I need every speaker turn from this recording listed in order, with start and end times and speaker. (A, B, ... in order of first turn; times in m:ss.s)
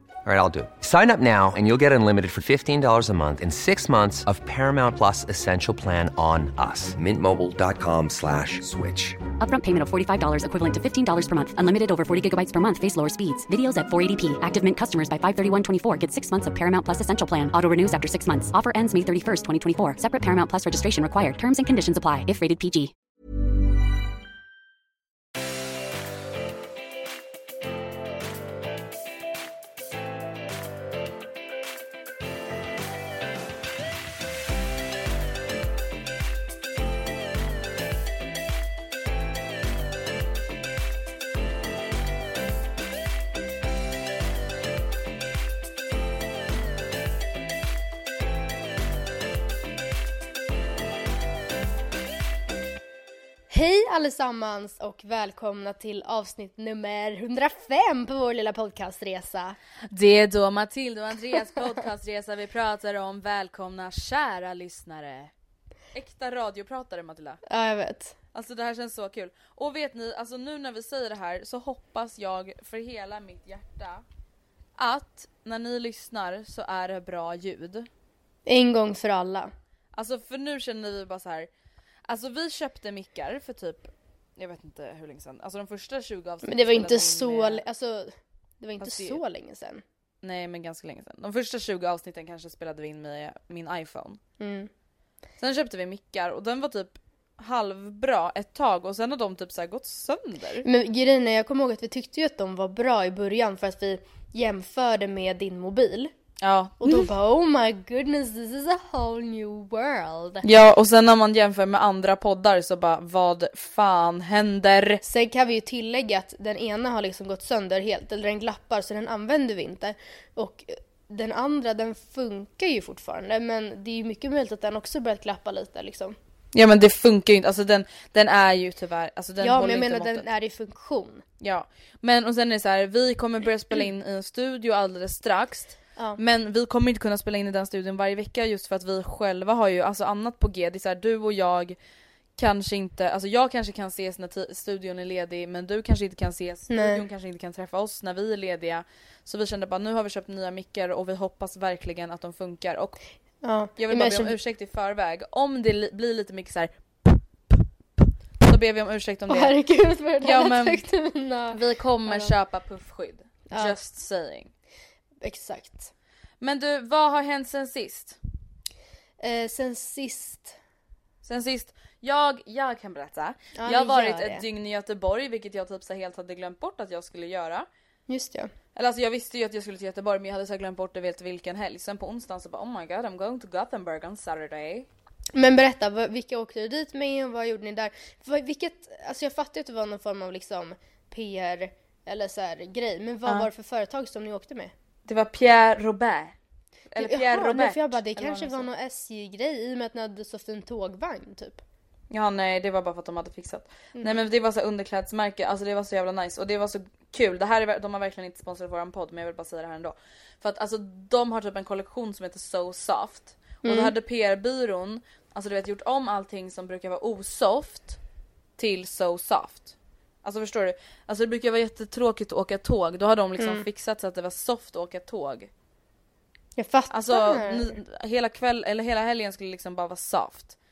0:00.2-0:09.2 A
0:09.4-0:22.9 B
0:53.5-0:59.6 C
0:59.9-1:05.3 D
1:05.9-1:07.4 D
1:07.5-1:08.2 C
1:08.3-1:14.0 D
1:14.8-1:17.9 D
1:18.5-1:19.5 C
1:20.0-1:21.5 D
1:22.1-1:27.6 D
1:26.4-1:29.8 C
1:28.8-1:29.2 D
1:30.2-1:34.2 D
1:34.4-1:34.7 C
1:35.4-1:40.7 D
1:40.6-1:46.1 C
1:46.4-1:47.1 D
1:46.8-1:50.5 C
1:50.4-1:55.0 D
1:55.0-2:06.2 C
2:06.5-2:10.2 D
2:09.4-2:11.2 C
2:11.4-2:21.8 D
2:22.4-2:33.0 D
2:26.7-2:27.0 C
2:33.4-2:34.4 C
2:33.8-2:37.6 D
2:38.4-2:39.5 D
2:39.3-2:42.3 C
2:40.2-2:40.8 D
2:41.5-2:44.5 D
2:43.5-2:43.8 C
2:45.2-2:45.9 C
2:46.4-2:48.2 D
2:49.2-2:50.6 C
2:51.2-2:57.7 D
2:53.6-2:54.4 C
2:58.1-2:58.5 C
2:58.8-3:04.9 D
3:05.3-3:14.7 C
3:15.1-3:16.4 D
3:16.9-3:18.7 D
3:17.0-3:21.6 C
3:22.1-3:38.0 D
3:24.0-3:24.2 C
3:33.6-3:33.9 C
3:38.6-3:45.5 D
3:43.4-3:43.7 C
3:46.6-3:47.8 C
3:46.9-3:50.6 D